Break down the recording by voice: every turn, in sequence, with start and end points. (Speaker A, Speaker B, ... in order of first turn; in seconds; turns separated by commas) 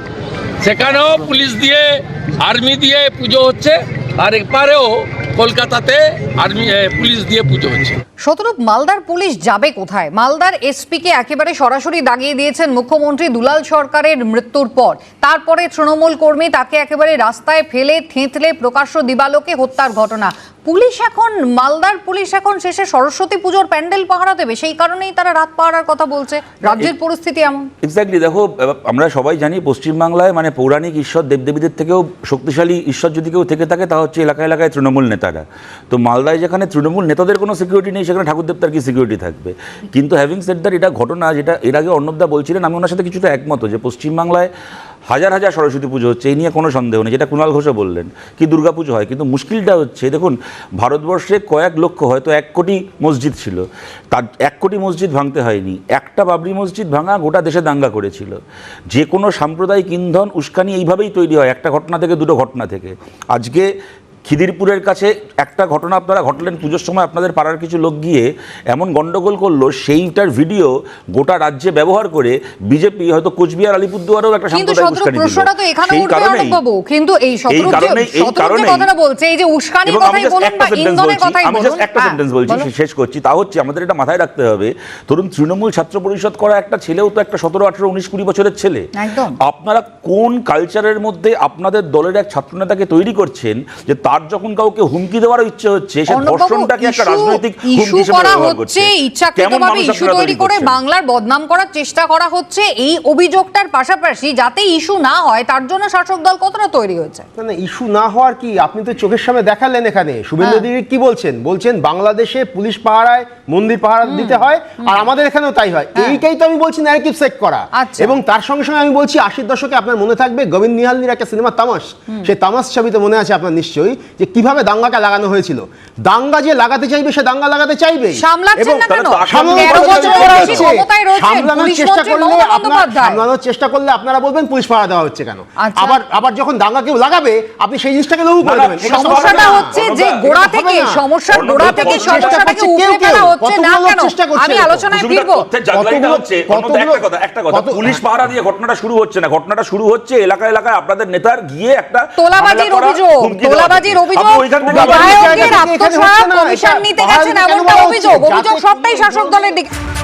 Speaker A: 0.6-7.9, Speaker B: 8.2-27.7, Speaker C: 27.8-44.5, Speaker C: 45.1-58.4, Speaker C: 58.9-63.7, Speaker C: 64.3-76.6, Speaker B: 74.5-82.7, Speaker C: 77.5-78.9, Speaker C: 79.8-88.9, Speaker B: 89.0-89.4, Speaker C: 89.4-100.8, Speaker B: 96.1-107.2, Speaker D: 107.4-141.0, Speaker B: 110.4-110.7, Speaker B: 114.0-115.1, Speaker B: 116.0-116.2, Speaker B: 117.7-118.2, Speaker B: 128.2-133.2, Speaker C: 128.9-130.7, Speaker B: 135.6-136.0, Speaker C: 138.4-140.3, Speaker B: 138.8-145.4, Speaker C: 141.3-142.4, Speaker D: 141.6-144.9, Speaker C: 144.9-155.6, Speaker D: 145.7-148.0, Speaker B: 152.2-159.7, Speaker D: 154.6-159.5